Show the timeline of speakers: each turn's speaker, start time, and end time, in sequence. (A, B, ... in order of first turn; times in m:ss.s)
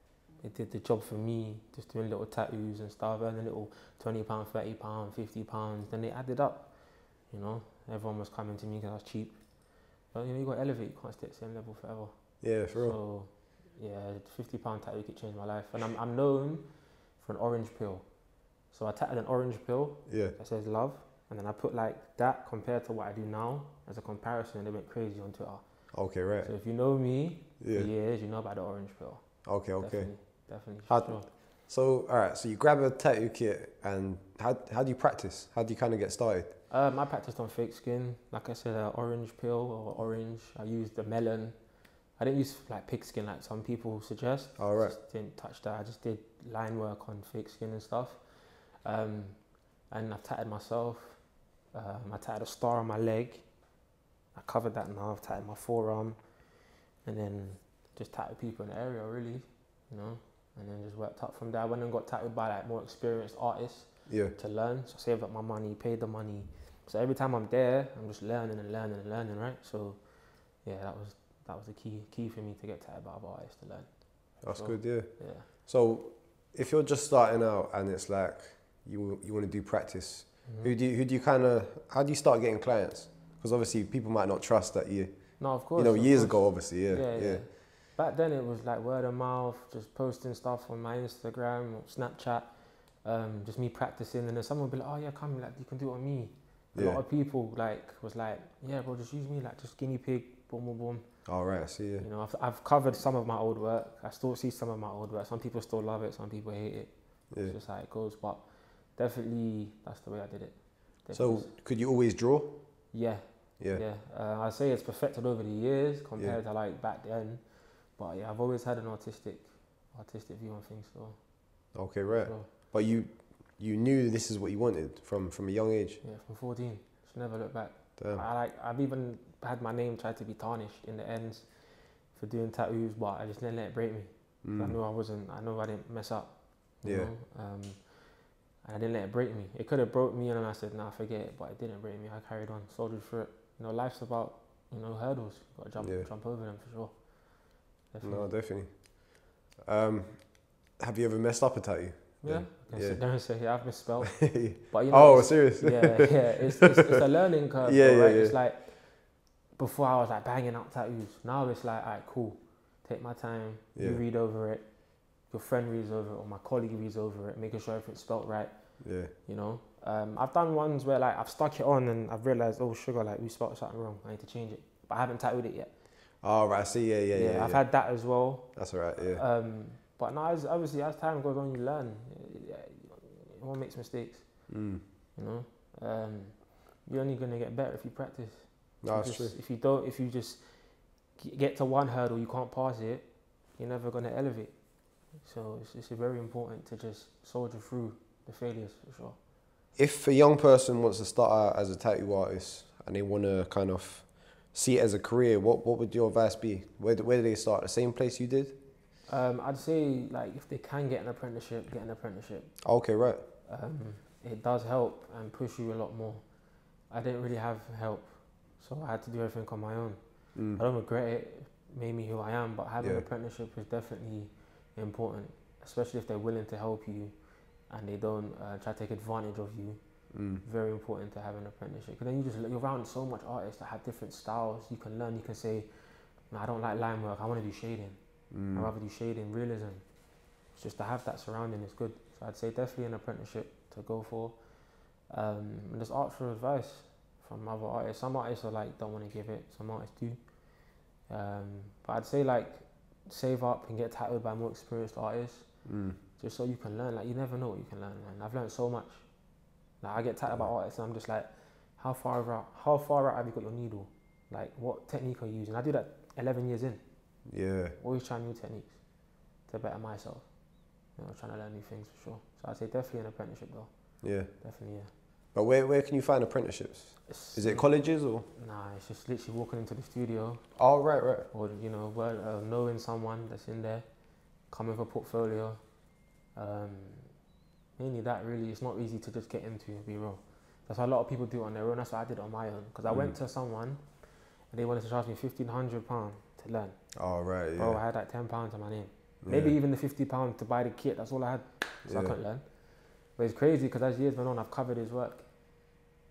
0:00.4-0:31.3 A
0:12.4-0:13.0 B
0:20.1-0:20.4 B
0:25.9-0:26.6 B
0:27.6-0:27.9 B
0:29.4-0:36.5 B
0:36.7-1:15.5 A
0:44.6-0:45.0 B
1:04.1-1:04.4 B
1:14.4-1:27.4 B
1:20.4-1:20.8 A
1:25.4-1:41.4 A
1:36.7-1:37.0 B
1:41.2-1:42.1 B
1:42.0-1:51.6 A
1:47.3-1:47.6 B
1:51.1-1:52.9 B
1:52.9-2:02.5 A
2:01.7-2:06.0 B
2:06.0-2:28.4 A
2:08.0-2:08.3 B
2:14.4-2:14.8 B
2:16.8-2:17.1 B
2:25.8-2:26.1 B
2:28.0-2:33.7 B
2:32.2-2:55.7 A
2:34.2-2:36.5 B
2:37.6-2:38.4 B
2:43.8-2:44.0 B
2:48.8-2:49.1 B
2:56.2-2:59.2 B
2:57.1-3:19.2 A
3:04.5-3:04.8 B
3:08.8-3:09.4 B
3:19.8-3:28.6 B
3:29.1-4:34.9 A
3:32.6-3:33.2 B
3:40.4-3:40.6 B
3:42.8-3:43.1 B
3:50.1-3:50.4 B
3:58.3-3:58.7 B
4:15.6-4:16.0 B
4:20.3-4:20.5 B
4:27.3-4:27.8 B
4:34.0-4:34.3 B
4:35.3-4:38.3 B
4:37.1-5:05.8 A
4:40.6-4:41.3 B
4:52.9-4:53.2 B
4:57.0-4:57.8 B
4:59.2-4:59.6 B
5:01.9-5:02.2 B